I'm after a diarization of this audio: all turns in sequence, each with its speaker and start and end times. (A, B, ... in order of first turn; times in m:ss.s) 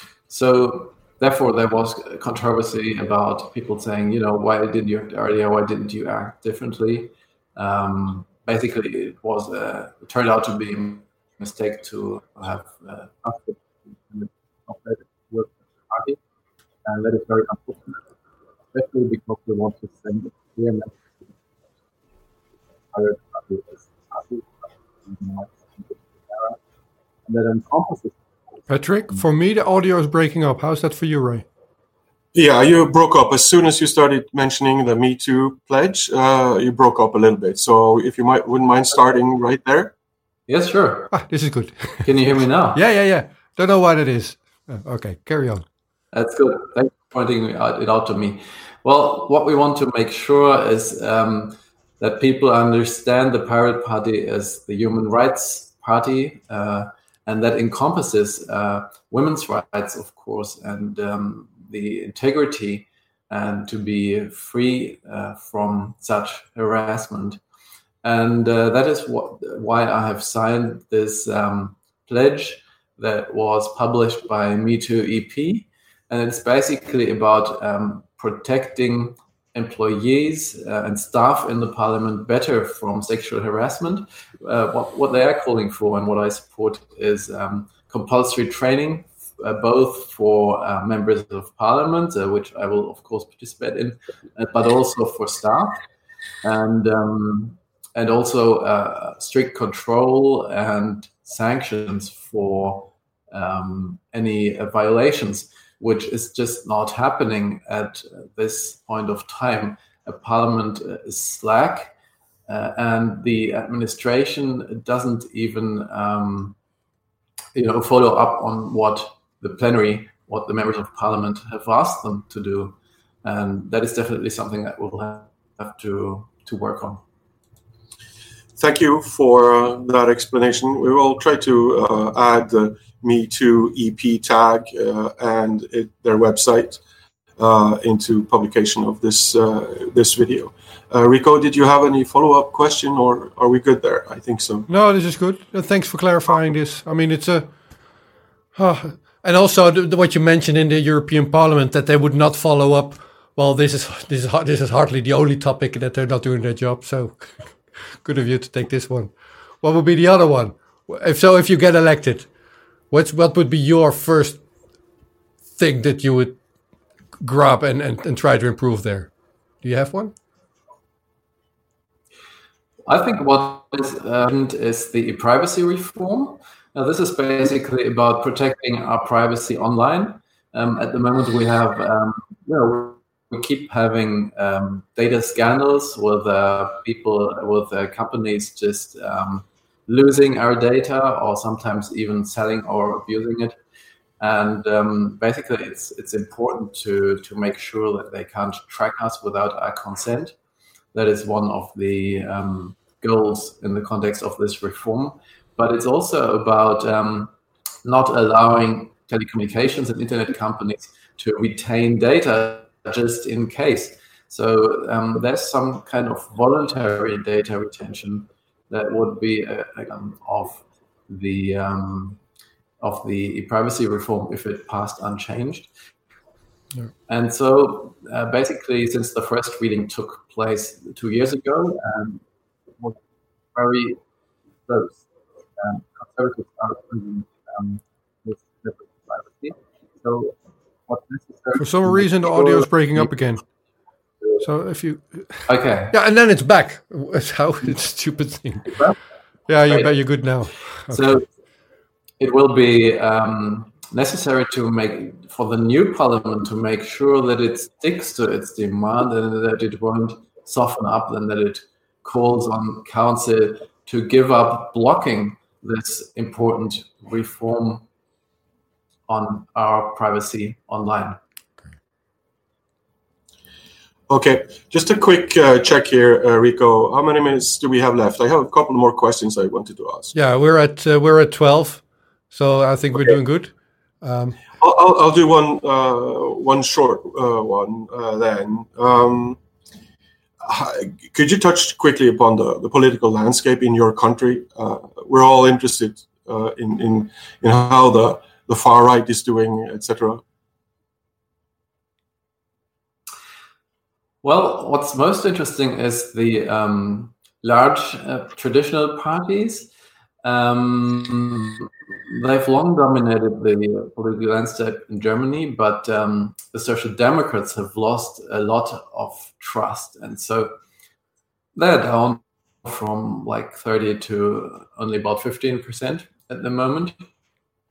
0:00.3-0:16.2 A
0:16.8-0:18.0 A
0:18.7-0:21.4 A
0:22.9-0:26.6 A
0:27.3-0:28.2 A
0:28.7-0:31.4 B
0:32.3-0:39.9 C
0:40.5-0:41.1 A
0:41.1-0:45.6 B
0:42.0-0:42.8 A
0:46.1-1:07.4 A
1:08.0-1:35.8 A
1:36.4-1:51.9 A
1:52.5-1:56.6 A
1:57.5-2:07.0 A
2:08.6-2:16.8 C
2:17.4-2:24.7 C
2:24.7-2:27.5 B
2:28.6-2:42.3 B
2:42.9-2:44.4 B
2:45.6-2:46.4 B
2:47.2-2:49.1 B
2:49.6-2:50.1 B
2:52.9-3:13.6 A
3:14.2-3:20.3 A
3:20.9-3:27.3 A
3:27.8-3:42.2 A
3:42.8-3:45.7 A
3:47.1-3:52.2 A
3:53.6-3:54.0 A
3:54.7-3:55.0 A
3:55.6-4:00.4 A
4:00.9-4:03.2 A
4:01.6-4:03.4 B
4:04.2-4:04.5 A
4:04.4-4:08.8 B
4:05.5-4:06.0 A
4:08.7-4:09.0 A
4:09.5-4:11.1 B
4:09.7-4:10.1 A
4:10.9-4:11.3 A
4:12.2-4:27.8 A
4:29.1-4:31.2 A
4:34.1-4:40.2 C
4:40.1-4:44.4 B
4:44.5-4:49.4 C
4:50.4-5:00.2 C
5:04.2-5:09.7 A
5:10.2-5:20.5 A
5:21.6-5:27.0 A